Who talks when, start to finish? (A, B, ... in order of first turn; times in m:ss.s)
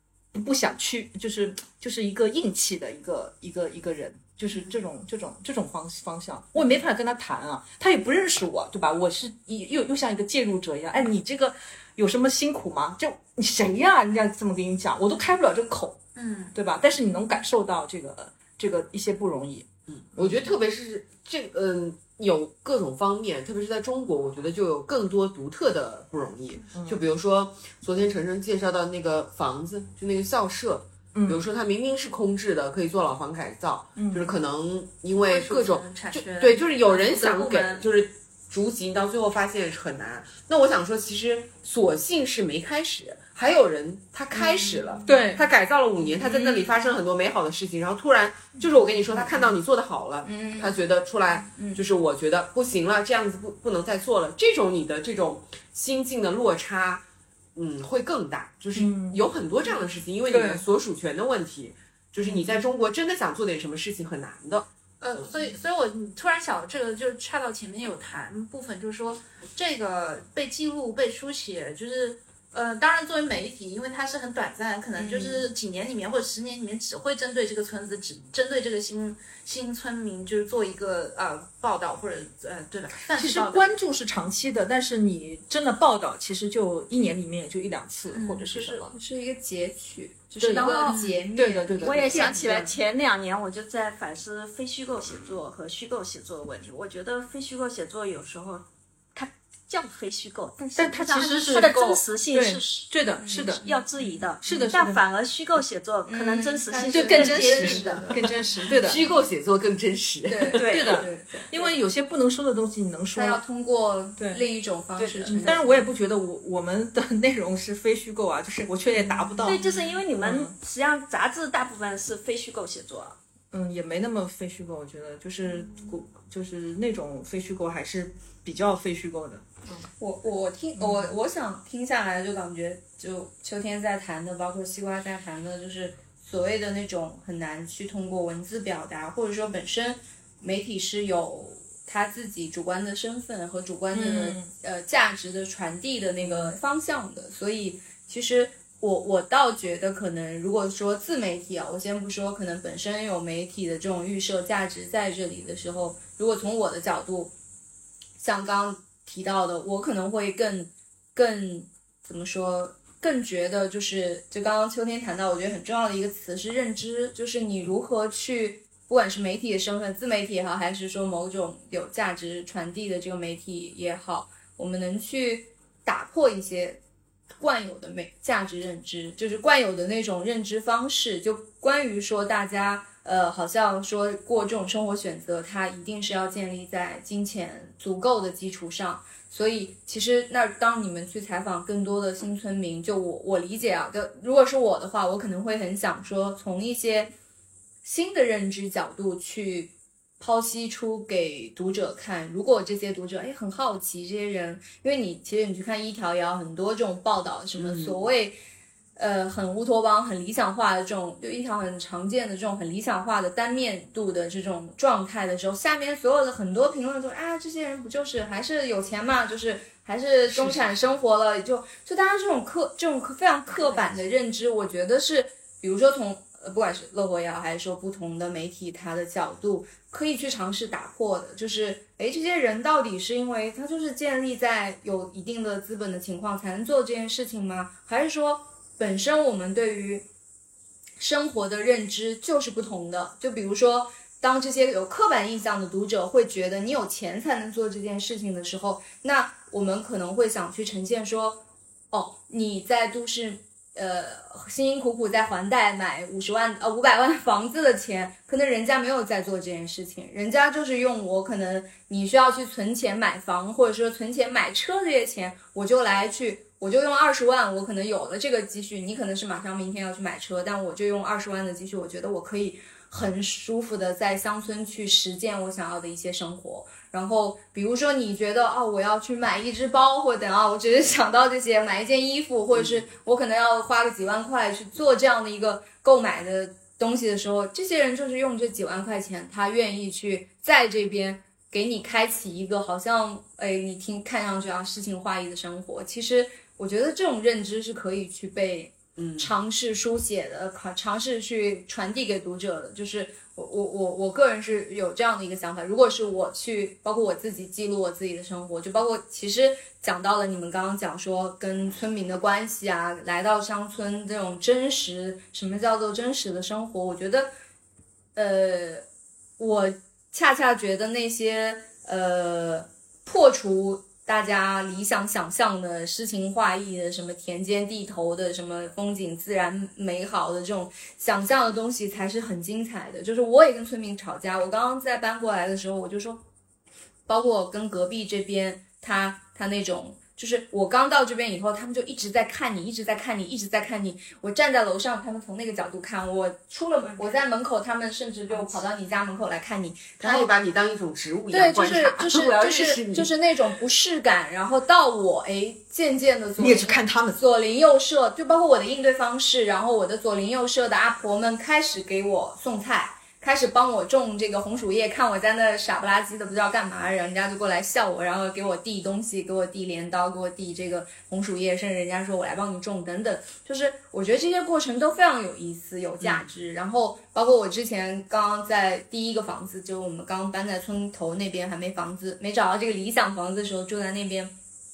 0:00.3-0:16.0 A
0:16.2-0:16.5 B
0:16.5-0:19.6 A
0:19.9-0:57.0 C
0:26.7-0:27.0 A
0:31.1-0:31.4 A
0:34.0-0:34.4 A
0:35.3-0:37.8 B
0:44.6-0:45.4 B
0:45.0-0:45.4 D
0:57.5-1:04.7 C
0:58.7-0:59.2 A
1:00.3-1:00.6 A
1:05.0-1:23.7 B
1:15.0-1:15.4 D
1:23.1-1:28.9 A
1:28.1-1:28.5 B
1:28.7-1:32.7 D
1:30.4-1:32.3 A
1:30.5-1:31.2 E
1:31.8-1:43.0 E
1:32.2-1:32.5 B
1:40.8-1:43.6 A
1:41.4-1:42.0 B
1:43.2-1:43.6 D
1:43.6-1:48.1 E
1:44.4-1:45.0 A
1:46.1-1:48.7 D
1:46.8-1:49.0 A
1:48.7-1:50.9 C
1:50.2-1:51.5 D
1:50.6-1:50.9 E
1:50.6-1:53.4 A
1:53.1-1:55.6 D
1:54.2-1:54.4 A
1:55.0-1:55.5 C
1:55.2-1:59.6 A
1:59.4-2:03.2 E
2:00.2-2:00.5 A
2:03.5-2:09.4 A
2:10.0-2:37.3 D
2:10.8-2:11.1 A
2:23.9-2:24.5 A
2:38.2-2:56.8 D
2:57.4-3:17.1 D
3:17.8-3:28.4 D
3:27.6-3:28.0 C
3:29.0-4:00.0 D
4:01.0-5:17.3 D
4:59.0-4:59.3 C
5:18.1-5:18.8 D
5:19.4-5:36.2 D
5:37.1-5:50.3 D
5:50.0-5:53.1 C
5:51.3-6:24.3 D
5:56.4-5:57.2 A